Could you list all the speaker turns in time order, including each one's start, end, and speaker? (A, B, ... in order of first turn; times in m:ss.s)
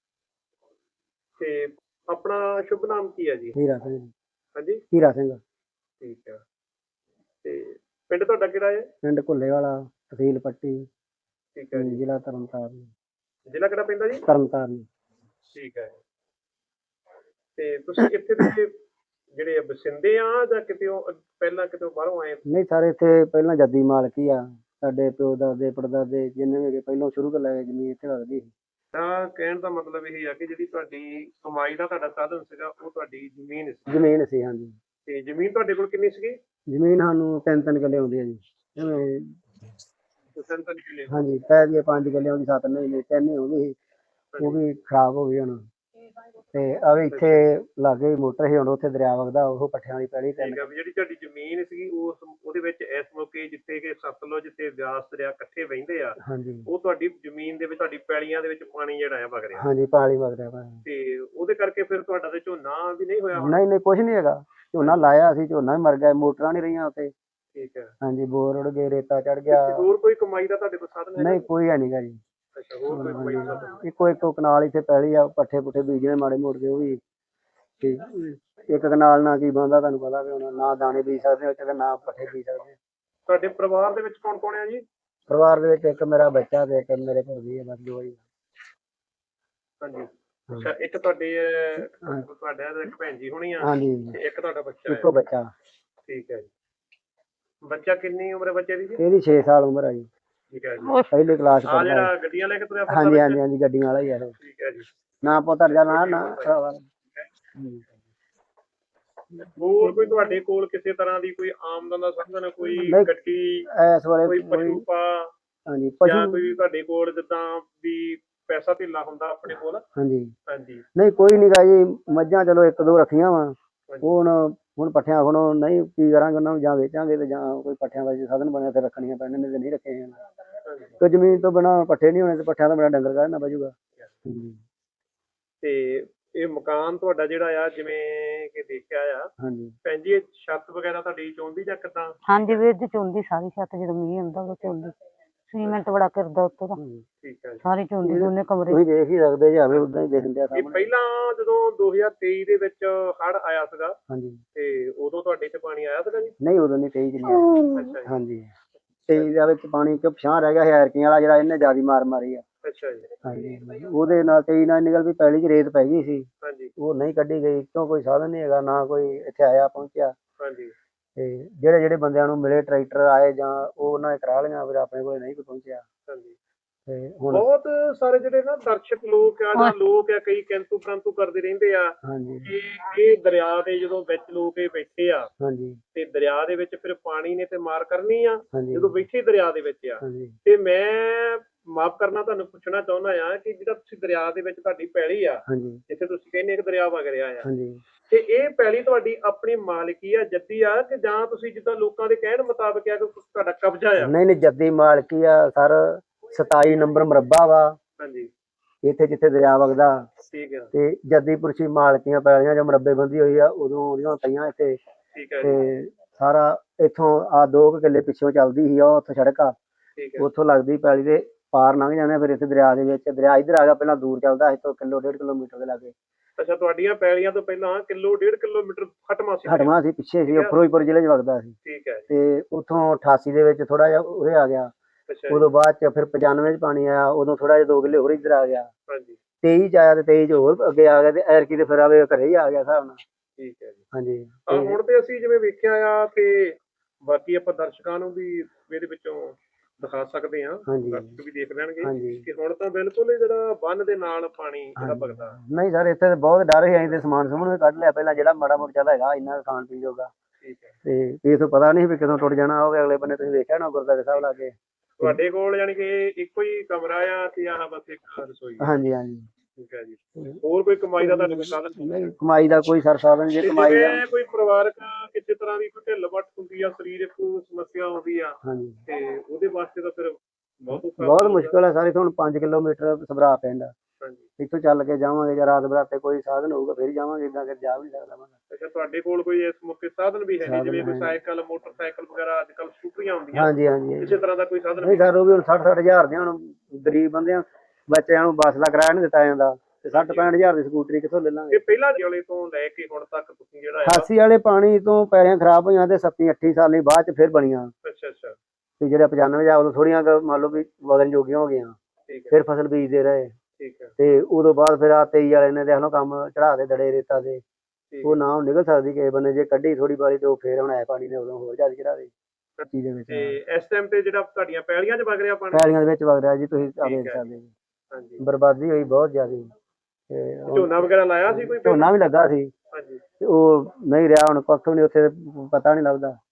0:01.4-0:03.6 A
0:03.6-0:04.1 B
0:04.6-0:04.8 A
0:04.9-0:05.4 B
0:06.0-0:06.4 A
0:07.4-0:08.9 A
0:09.0-0:10.9 B
0:11.5-0:12.0 A
0:11.8-0:12.9 B
0:13.5-0:14.2 A
0:14.2-0:14.9 B
0:15.5-0:16.0 A
0:17.6-0:18.7 A
0:19.3-0:22.4 A
0:22.5-0:28.5 B
0:28.9-0:33.9 A
0:33.9-0:34.7 B
0:35.0-0:36.4 A
0:36.7-0:39.4 B
0:40.3-0:41.2 A
0:41.1-0:43.8 B
0:44.3-0:44.6 A
0:44.4-0:45.6 B
0:46.5-0:50.6 B
0:47.1-0:47.4 A
0:50.4-0:59.7 A
0:56.2-0:56.7 B
0:59.6-1:00.8 B
1:00.8-1:03.6 A
1:03.4-1:07.1 B
1:07.5-1:07.9 A
1:08.0-1:09.9 B
1:09.5-1:11.5 A
1:11.2-1:12.2 B
1:12.6-1:13.8 A
1:12.9-1:17.0 B
1:17.8-1:22.8 B
1:23.3-1:24.8 A
1:25.3-1:28.2 B
1:29.8-1:35.1 A
1:31.9-1:32.2 B
1:33.6-1:34.2 B
1:34.9-1:35.5 B
1:36.1-1:36.5 A
1:37.6-1:39.0 A
1:39.0-1:40.1 B
1:40.5-1:40.9 A
1:40.8-1:41.1 C
1:41.1-1:42.1 B
1:41.7-1:43.4 A
1:42.9-1:44.3 B
1:44.4-1:44.9 A
1:45.2-1:46.8 B
1:45.7-1:46.5 A
1:47.6-1:47.8 B
1:49.5-1:53.7 A
1:52.8-1:53.1 B
1:53.7-1:54.8 B
1:54.2-1:55.3 A
1:55.7-1:56.4 B
1:56.0-1:59.8 A
2:00.0-2:00.3 B
2:00.5-2:00.8 A
2:01.0-2:10.2 B
2:03.9-2:04.1 A
2:10.6-2:11.0 A
2:11.0-2:14.6 B
2:15.6-2:19.3 A
2:19.4-2:19.8 B
2:19.8-2:22.6 A
2:22.3-2:24.9 C
2:25.5-2:26.8 C
2:26.8-2:27.0 B
2:27.2-2:27.6 A
2:27.6-2:28.8 C
2:28.0-2:30.9 B
2:30.5-2:34.0 A
2:34.1-2:34.4 B
2:34.5-2:36.3 A
2:36.4-2:38.5 B
2:37.7-2:38.1 A
2:39.1-2:42.4 B
2:42.6-2:43.1 A
2:43.2-2:46.3 B
2:46.4-2:46.7 A
2:46.8-2:50.1 B
2:50.4-2:50.7 A
2:51.2-2:55.8 B
2:56.0-2:56.4 A
2:56.9-2:57.5 B
2:57.3-3:05.3 A
3:02.0-3:02.5 B
3:05.4-3:05.8 B
3:05.9-3:17.5 A
3:08.5-3:08.9 B
3:10.0-3:10.4 B
3:15.5-3:15.8 B
3:17.4-3:17.8 B
3:18.1-3:24.1 A
3:24.0-3:27.8 B
3:28.0-3:28.3 A
3:28.8-3:30.1 B
3:30.3-3:30.7 A
3:30.7-3:34.8 B
3:35.1-3:35.6 A
3:35.4-3:39.5 B
3:40.0-3:40.3 A
3:40.2-3:45.9 B
3:46.4-3:49.7 A
3:49.5-3:51.5 B
3:50.3-3:50.6 A
3:51.6-3:52.1 A
3:52.1-3:54.7 B
3:55.1-3:55.4 A
3:55.3-3:58.7 B
3:58.9-3:59.2 A
3:59.4-4:03.0 B
4:03.4-4:03.8 A
4:03.9-4:04.8 B
4:04.5-4:15.4 A
4:10.7-4:11.1 B
4:11.8-4:12.2 B
4:14.8-4:20.1 B
4:20.4-4:20.8 A
4:20.8-4:25.2 B
4:25.0-4:28.8 A
4:28.6-4:29.3 B
4:29.6-4:32.1 A
4:31.0-4:34.0 B
4:33.4-4:41.5 A
4:38.4-4:38.8 B
4:40.7-4:43.7 B
4:44.4-4:48.3 B
4:48.5-4:55.1 A
4:50.4-4:51.2 B
4:53.3-4:54.2 B
4:54.8-5:01.6 B
4:59.9-5:00.3 A
5:01.5-5:04.1 A
5:03.8-5:07.7 B
5:07.8-5:08.4 A
5:08.8-5:11.8 B
5:12.1-5:12.4 A
5:12.3-5:13.3 B
5:13.6-5:13.9 A
5:14.0-5:17.4 B
5:17.9-5:18.2 A
5:18.0-5:22.1 B
5:22.6-5:25.7 A
5:22.7-5:23.4 B
5:25.5-5:27.5 B
5:26.8-5:27.2 A
5:27.9-5:28.2 A
5:28.2-5:29.5 B
5:30.1-5:32.5 B
5:30.5-5:31.9 A
5:32.7-5:33.0 A
5:33.2-5:36.2 B